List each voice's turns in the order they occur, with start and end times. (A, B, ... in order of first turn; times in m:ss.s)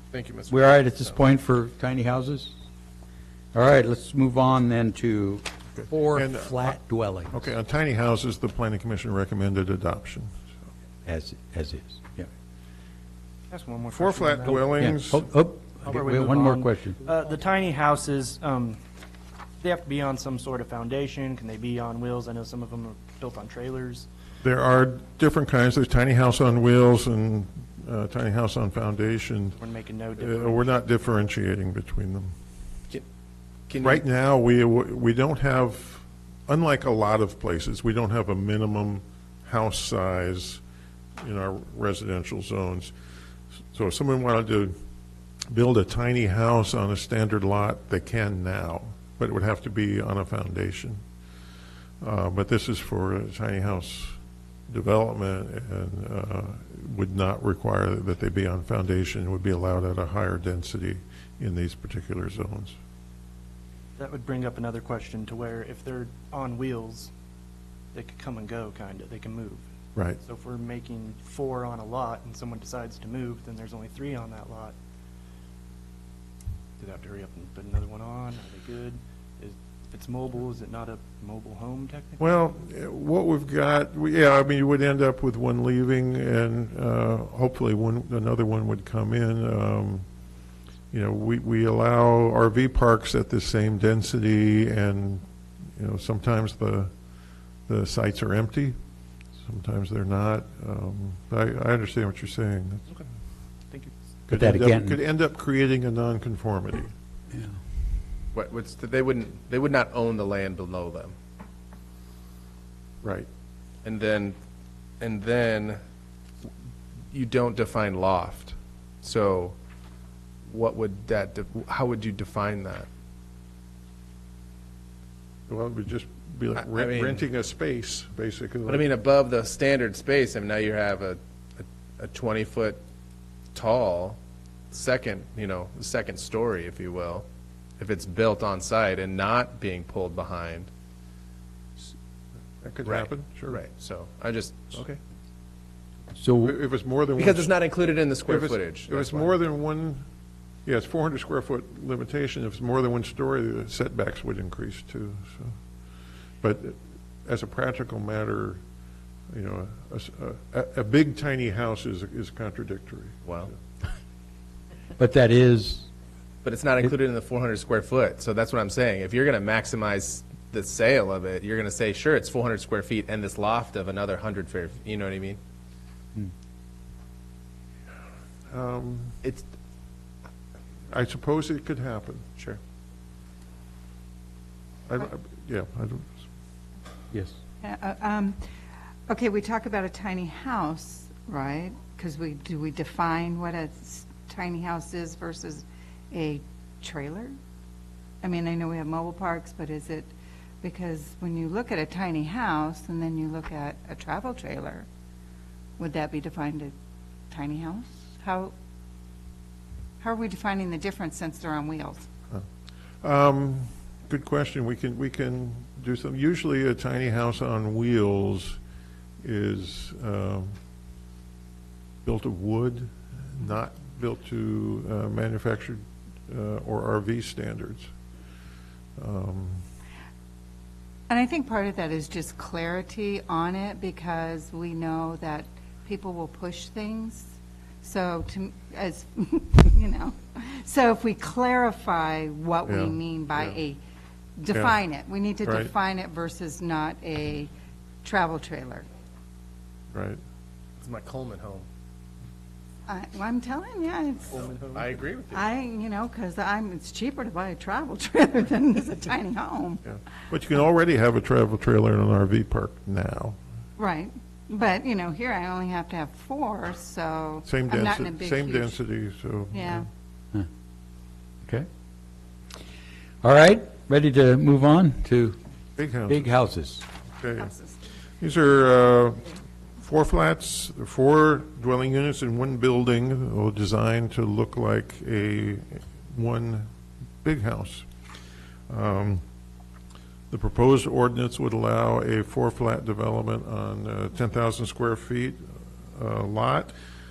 0:00.1-0:01.2 A
0:00.5-0:02.5 B
0:03.5-0:07.4 B
0:06.1-0:06.8 C
0:07.3-0:10.3 C
0:11.0-0:12.3 B
0:13.5-0:14.8 D
0:13.9-0:15.3 C
0:14.7-0:17.0 B
0:15.8-0:18.8 D
0:19.6-0:24.1 D
0:24.4-0:29.6 C
0:29.5-0:30.6 D
0:30.2-0:32.3 C
0:33.7-0:34.0 A
0:33.8-0:40.6 C
0:41.2-0:42.9 C
0:43.7-0:44.7 C
0:45.5-0:51.0 C
0:52.0-0:54.2 C
0:54.7-1:02.8 C
1:04.0-1:07.1 D
1:07.9-1:09.6 D
1:09.9-1:10.2 C
1:10.2-1:14.8 D
1:16.8-1:22.2 D
1:22.2-1:30.0 C
1:30.9-1:35.2 C
1:35.8-1:36.9 C
1:37.7-1:38.8 C
1:39.4-1:42.8 C
1:43.7-1:44.0 D
1:44.3-1:46.9 C
1:44.3-1:45.0 B
1:47.3-1:47.6 B
1:48.3-1:51.1 A
1:53.0-1:53.3 C
1:53.8-1:54.3 A
1:55.0-1:55.8 A
1:57.1-1:59.6 A
2:00.5-2:02.9 A
2:05.5-2:08.8 C
2:06.6-2:07.2 A
2:08.7-2:12.8 A
2:13.5-2:14.2 A
2:14.7-2:17.2 A
2:17.8-2:20.7 A
2:22.6-2:23.6 C
2:22.8-2:25.0 A
2:26.2-2:26.5 B
2:26.4-2:27.6 C
2:27.2-2:29.3 A
2:28.2-2:30.0 C
2:30.6-2:35.6 C
2:36.4-2:38.6 C
2:39.3-2:43.5 C
2:43.2-2:43.5 A
2:45.0-2:45.9 B
2:46.4-2:55.4 A
2:58.5-2:59.2 C
3:00.9-3:02.3 C
3:04.9-3:06.2 C
3:07.6-3:08.4 E
3:09.1-3:17.3 E
3:18.2-3:20.1 E
3:20.6-3:24.8 E
3:25.8-3:26.7 E
3:27.3-3:28.5 E
3:30.0-3:32.1 E
3:33.0-3:38.6 C
3:39.2-3:40.5 C
3:42.0-3:47.9 C
3:49.0-3:49.6 C
3:51.1-4:03.8 E
4:02.7-4:03.6 C
4:04.4-4:07.5 E
4:04.5-4:04.8 C
4:05.4-4:05.7 C
4:08.0-4:08.8 E
4:09.9-4:10.2 C
4:10.8-4:11.6 A
4:12.9-4:14.5 E
4:14.3-4:14.8 D
4:14.7-4:15.4 A
4:15.3-4:19.8 E
4:19.8-4:23.4 C
4:23.8-4:28.8 E
4:27.4-4:29.9 C
4:29.5-4:29.9 E
4:33.2-4:35.4 B
4:35.8-4:36.3 C
4:36.1-4:36.8 B
4:37.2-4:37.5 C
4:37.4-4:37.7 E
4:38.2-4:46.6 C
4:47.2-4:47.9 C
4:48.7-4:49.2 C
4:50.3-4:56.7 C